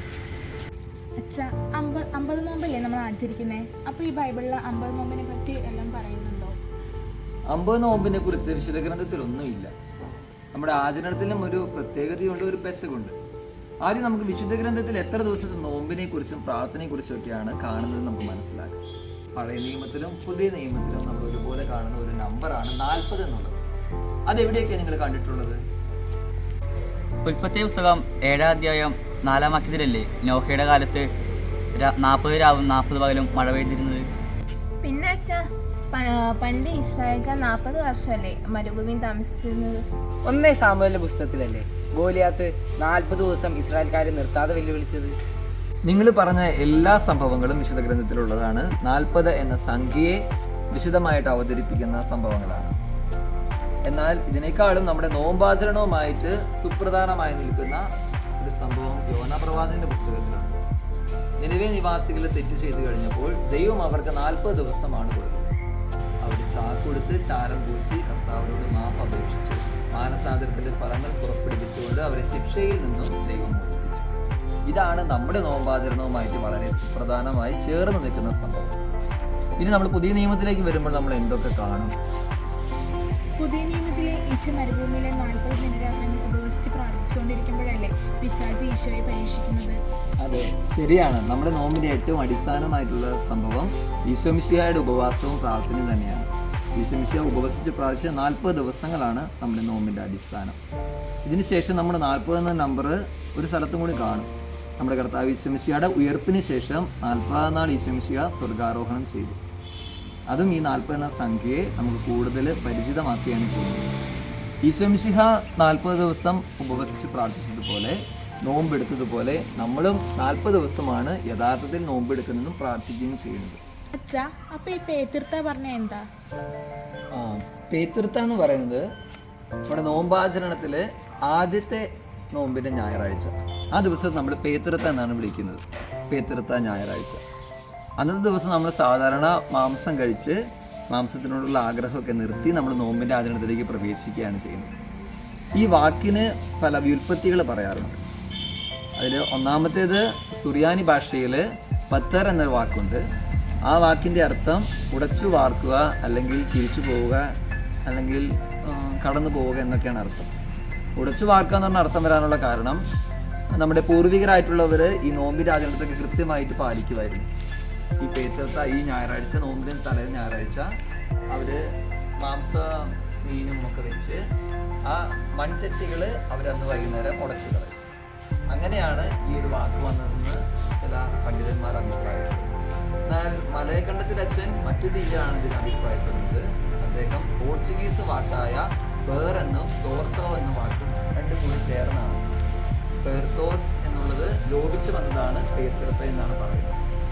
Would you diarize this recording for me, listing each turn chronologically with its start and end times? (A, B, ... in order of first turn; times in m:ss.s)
0:01.2-0:06.6 A
0:07.5-0:09.7 B
0:10.5-0:13.2 B
0:13.8-0:18.8 B
0:19.3-0:23.6 B
0:24.3-0:25.6 B
0:27.2-0:31.1 C
0:31.8-0:34.1 C
0:34.8-0:39.8 D
0:40.2-0:45.2 E
0:45.8-0:52.8 B
0:53.8-0:57.8 B
0:58.4-1:00.6 B
1:01.4-1:05.5 B
1:06.2-1:14.1 B
1:14.7-1:18.8 B
1:19.6-1:21.9 B
1:23.4-1:29.8 A
1:30.2-1:40.6 B
1:41.3-1:49.4 B
1:50.3-1:53.9 B
1:54.6-2:03.6 B
2:04.0-2:06.0 A
2:07.1-2:08.9 B
2:09.7-2:17.2 B
2:18.0-2:24.7 B
2:25.6-2:28.0 B
2:29.0-2:33.0 B
2:33.6-2:37.3 B
2:37.9-2:40.3 B
2:41.0-2:42.8 B
2:43.5-2:47.3 B
2:48.0-2:50.7 B
2:51.3-2:51.6 B
2:52.2-2:54.2 B
2:54.9-2:57.8 B
2:58.5-3:02.5 B
3:03.1-3:12.2 B
3:13.0-3:16.8 B